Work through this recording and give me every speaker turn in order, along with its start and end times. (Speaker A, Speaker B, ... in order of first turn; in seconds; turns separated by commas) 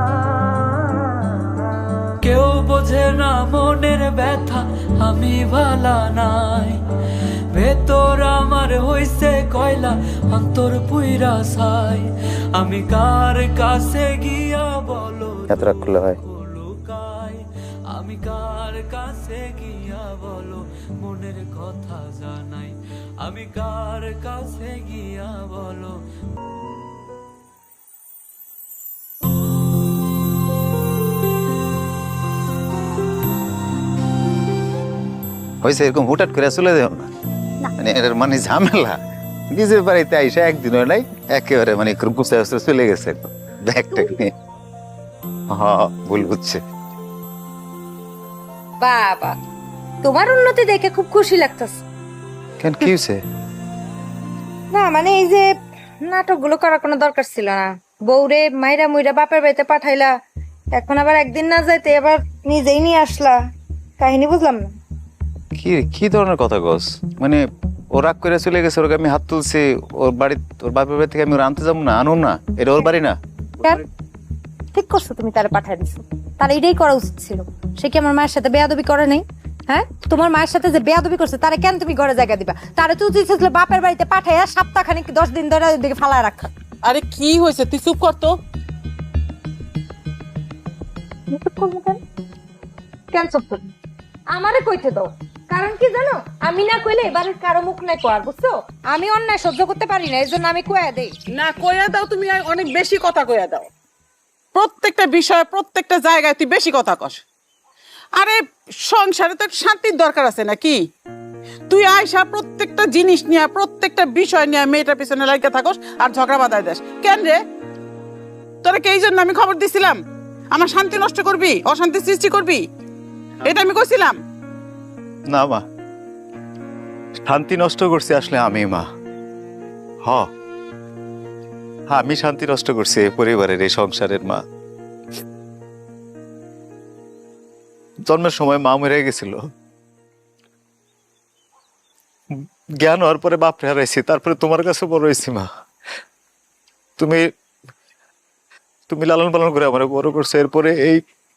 Speaker A: 2.2-6.8, Speaker A: 7.5-26.0, Speaker B: 15.5-16.2, Speaker B: 35.6-37.1, Speaker B: 37.8-39.0, Speaker B: 39.5-44.3, Speaker B: 45.5-46.6, Speaker C: 48.8-49.4, Speaker C: 50.0-51.8, Speaker B: 52.6-53.2, Speaker C: 54.7-55.5, Speaker C: 56.0-60.1, Speaker C: 60.7-63.4, Speaker C: 64.0-64.7, Speaker B: 65.5-67.4, Speaker B: 67.9-73.2, Speaker C: 74.7-86.5, Speaker D: 86.8-88.3, Speaker C: 91.3-92.0, Speaker C: 93.1-93.7, Speaker C: 94.3-101.1, Speaker D: 101.3-103.7, Speaker D: 104.5-107.2, Speaker D: 108.2-110.8, Speaker D: 111.7-117.4, Speaker D: 118.6-120.0, Speaker D: 120.5-122.6, Speaker D: 123.4-124.2, Speaker B: 125.3-125.6, Speaker B: 127.2-128.9, Speaker B: 130.0-130.3, Speaker B: 131.9-134.4, Speaker B: 138.1-139.4, Speaker B: 142.4-145.5, Speaker B: 147.0-147.3, Speaker B: 148.9-151.0